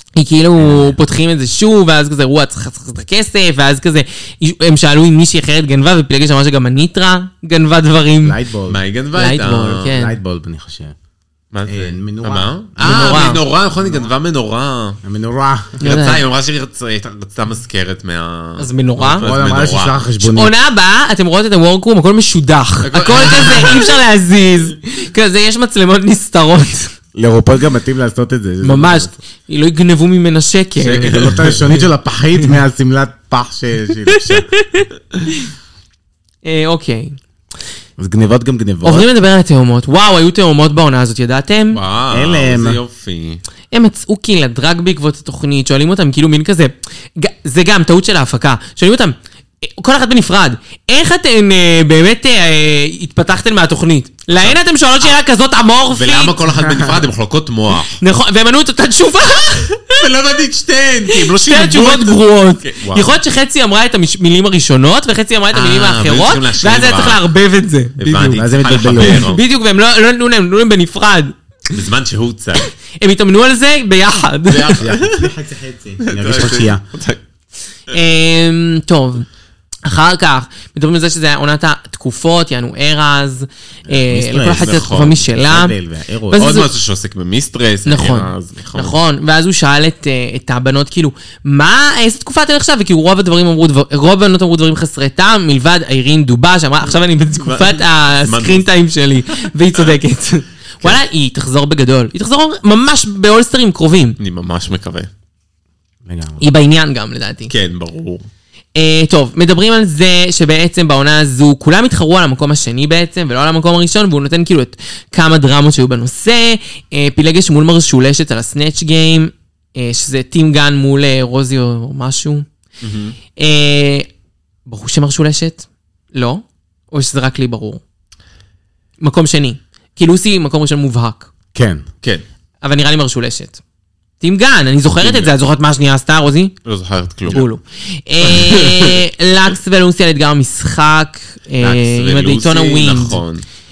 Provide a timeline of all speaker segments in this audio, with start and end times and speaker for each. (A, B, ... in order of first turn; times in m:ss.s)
0:00.2-0:08.4 A
0:00.6-0:01.0 B
0:08.2-0:08.8 B
0:08.7-0:09.9 C
0:09.1-0:10.2 A
0:09.9-0:10.9 B
0:11.5-0:15.0 C
0:11.7-0:13.2 B
0:12.8-0:13.4 A
0:15.0-0:15.8 B
0:15.8-0:16.2 A
0:15.8-0:20.0 C
0:18.6-0:19.3 A
0:19.2-0:20.5 B
0:20.2-0:26.9 A
0:22.8-0:24.0 C
0:27.1-0:29.2 B
0:28.6-0:31.3 A
0:30.8-0:31.7 C
0:31.0-0:34.5 B
0:34.2-0:35.5 A
0:36.4-0:37.2 A
0:38.0-0:39.1 B
0:38.8-0:41.8 A
0:41.7-0:43.4 C
0:42.1-0:42.8 B
0:43.7-0:56.4 A
0:54.3-0:55.1 C
0:55.9-0:58.0 C
0:56.6-0:56.9 B
0:58.0-1:00.0 A
0:59.9-1:03.2 C
1:01.1-1:11.3 A
1:05.5-1:07.2 C
1:08.0-1:09.4 C
1:08.3-1:09.3 B
1:11.7-1:12.7 C
1:12.9-1:14.8 A
1:14.5-1:15.3 C
1:14.8-1:16.8 B
1:16.0-1:17.2 C
1:17.9-1:19.3 A
1:19.8-1:25.7 A
1:23.9-1:24.7 B
1:24.4-1:25.2 C
1:25.3-1:26.6 B
1:26.3-1:26.7 A
1:26.3-1:29.0 C
1:27.8-1:44.2 A
1:36.9-1:38.7 C
1:44.2-1:45.1 C
1:46.0-1:46.4 B
1:46.4-1:47.5 A
1:47.5-1:48.2 C
1:48.7-2:02.4 A
2:02.8-2:03.2 C
2:03.4-2:04.1 A
2:04.6-2:07.8 A
2:09.0-2:11.3 A
2:11.5-2:11.8 B
2:12.6-2:13.6 A
2:14.2-2:16.5 A
2:15.0-2:15.3 C
2:16.6-2:17.4 C
2:17.3-2:23.2 A
2:18.2-2:19.0 C
2:21.6-2:23.4 C